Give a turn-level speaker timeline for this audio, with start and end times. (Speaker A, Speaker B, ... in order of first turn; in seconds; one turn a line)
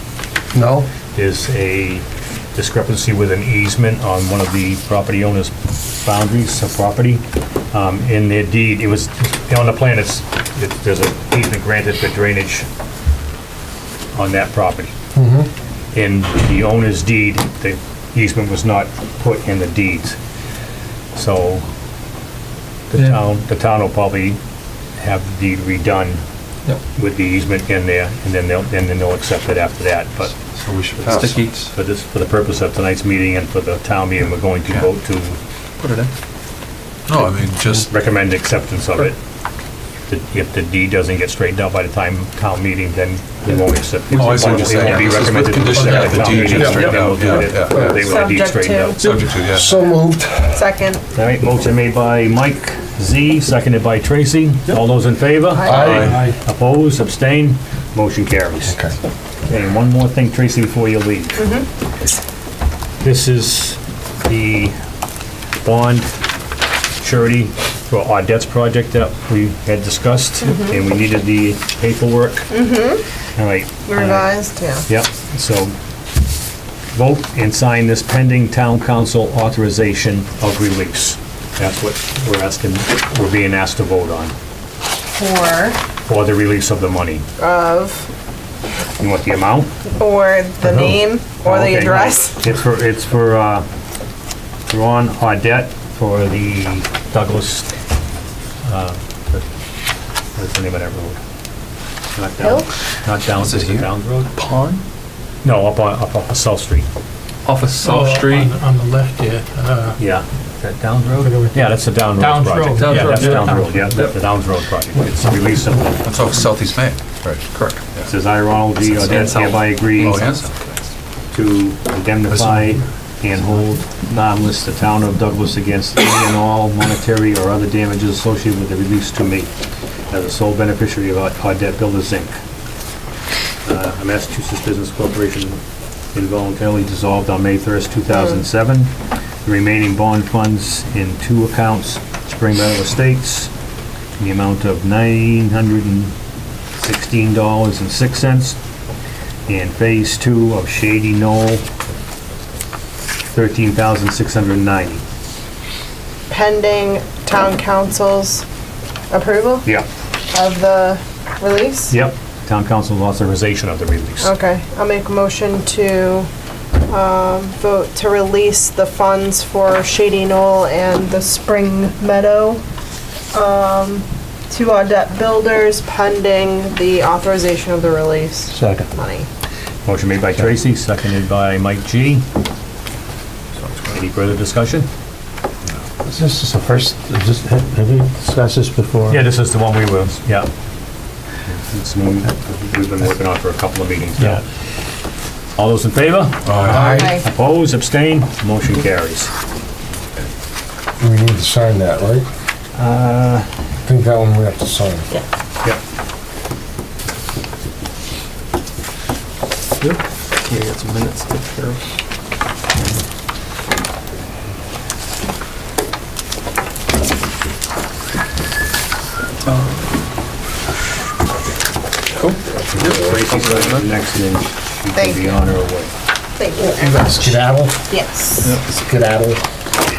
Speaker A: 0.5-0.9
Speaker B: 1.1-12.7
Speaker B: 14.1-14.9
Speaker A: 15.1-15.5
Speaker B: 15.9-20.2
Speaker B: 21.1-21.7
Speaker B: 22.9-24.4
Speaker B: 25.0-26.2
Speaker B: 26.9-30.3
Speaker C: 30.5-31.5
Speaker B: 30.9-35.4
Speaker D: 31.0-31.7
Speaker D: 35.8-36.1
Speaker C: 37.1-37.9
Speaker B: 37.9-39.2
Speaker B: 40.1-49.0
Speaker D: 44.1-45.1
Speaker C: 44.1-48.3
Speaker A: 45.9-46.2
Speaker D: 46.5-47.1
Speaker E: 47.8-49.2
Speaker C: 49.0-49.8
Speaker A: 49.4-50.6
Speaker E: 50.5-51.0
Speaker B: 51.1-58.8
Speaker E: 55.5-55.9
Speaker A: 55.6-56.3
Speaker C: 55.6-56.3
Speaker F: 56.0-56.3
Speaker A: 58.6-58.9
Speaker B: 59.5-61.5
Speaker E: 61.4-61.6
Speaker B: 63.0-64.7
Speaker B: 65.6-66.1
Speaker B: 67.0-72.5
Speaker E: 70.4-70.8
Speaker E: 72.5-73.0
Speaker B: 73.3-74.3
Speaker E: 73.8-74.8
Speaker B: 74.8-75.7
Speaker B: 76.9-84.3
Speaker E: 85.1-85.8
Speaker B: 86.1-87.2
Speaker E: 87.4-88.1
Speaker B: 89.0-89.7
Speaker E: 89.9-92.4
Speaker B: 90.6-93.6
Speaker B: 94.7-97.7
Speaker B: 98.6-99.5
Speaker B: 100.3-101.2
Speaker B: 102.1-104.3
Speaker E: 102.4-102.7
Speaker D: 103.4-104.8
Speaker B: 105.4-106.9
Speaker D: 107.4-108.6
Speaker F: 107.8-110.0
Speaker B: 110.0-116.0
Speaker F: 111.2-114.1
Speaker D: 112.7-114.2
Speaker C: 116.0-118.1
Speaker D: 117.5-117.8
Speaker B: 118.0-120.3
Speaker C: 118.8-119.3
Speaker D: 118.9-120.8
Speaker C: 120.0-120.5
Speaker B: 121.3-129.5
Speaker C: 122.3-122.7
Speaker B: 130.1-132.4
Speaker B: 133.7-135.6
Speaker B: 136.1-138.9
Speaker E: 138.1-138.4
Speaker B: 139.4-143.5
Speaker B: 144.2-146.1
Speaker B: 146.8-148.6
Speaker B: 149.5-151.6
Speaker B: 153.3-155.0
Speaker E: 156.3-158.4
Speaker E: 159.1-159.7
Speaker E: 160.3-161.9
Speaker B: 161.9-164.3
Speaker E: 164.2-166.3
Speaker E: 166.9-172.6
Speaker E: 173.3-179.3
Speaker G: 178.5-178.8
Speaker B: 179.8-182.2
Speaker B: 183.9-184.9
Speaker G: 186.1-189.2
Speaker B: 189.1-190.5
Speaker B: 191.7-194.4
Speaker B: 195.6-199.3
Speaker C: 196.4-197.1
Speaker A: 196.6-197.1
Speaker E: 196.9-197.2
Speaker A: 201.0-202.3
Speaker B: 202.8-203.5
Speaker A: 203.8-205.1
Speaker D: 209.8-211.8
Speaker D: 219.4-219.8
Speaker D: 222.1-223.8
Speaker B: 222.7-225.9
Speaker E: 224.9-225.4
Speaker E: 226.3-228.6
Speaker A: 226.6-227.8
Speaker A: 228.6-229.4